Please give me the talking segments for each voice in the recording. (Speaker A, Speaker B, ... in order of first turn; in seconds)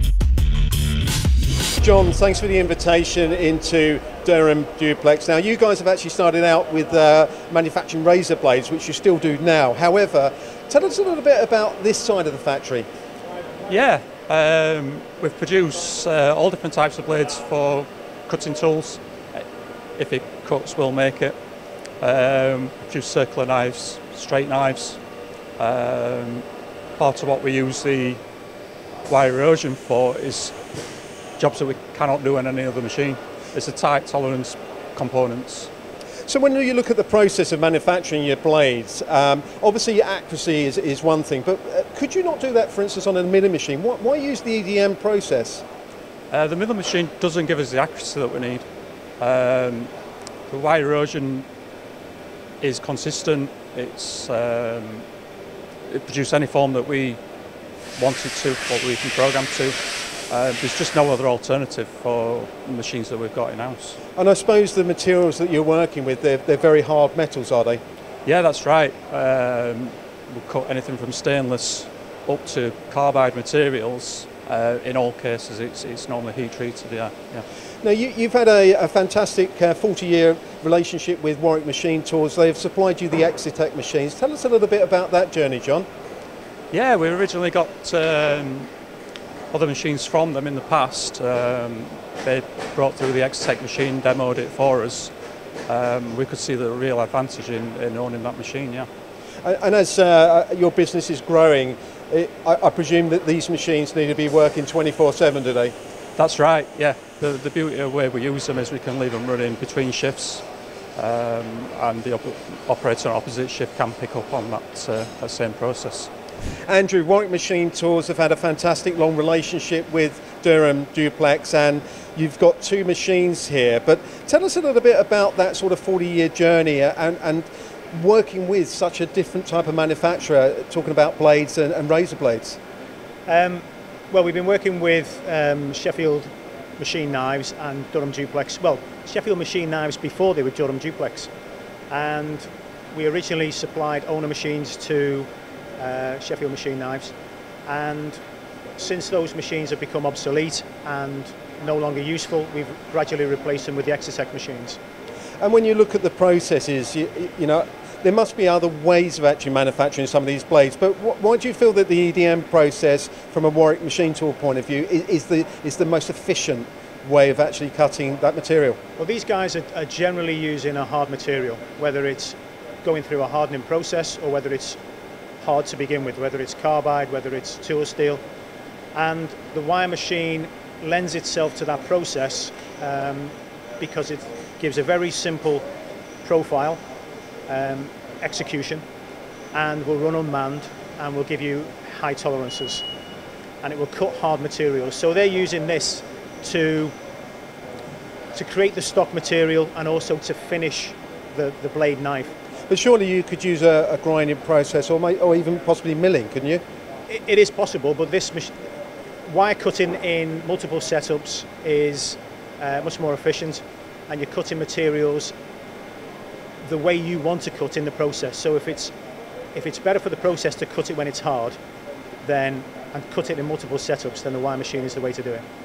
Speaker A: 1.8-12.9, 36.3-45.6, 64.2-67.8, 77.8-85.9, 99.4-105.7, 116.7-132.6, 155.4-168.8, 202.7-206.6
Speaker B: 13.7-19.4, 20.0-21.4, 22.0-25.0, 25.6-26.4, 27.0-28.2, 29.1-30.6, 31.4-35.7, 46.3-48.6, 49.2-49.9, 50.5-51.5, 52.6-55.0, 55.9-57.2, 58.0-59.8, 60.3-64.0, 68.2-77.5, 86.7-88.7, 89.5-95.1, 95.7-98.9, 106.2-110.4, 111.0-116.1
Speaker C: 133.3-141.3, 141.9-147.1, 147.7-148.2, 148.8-154.8, 169.0-174.8, 175.4-178.2, 178.9-185.7, 186.2-186.8, 187.5-188.8, 189.5-192.8, 193.6-196.9, 198.3-202.3, 207.1-208.6, 209.3-215.3, 216.6-218.9, 219.5-221.6, 222.2-225.4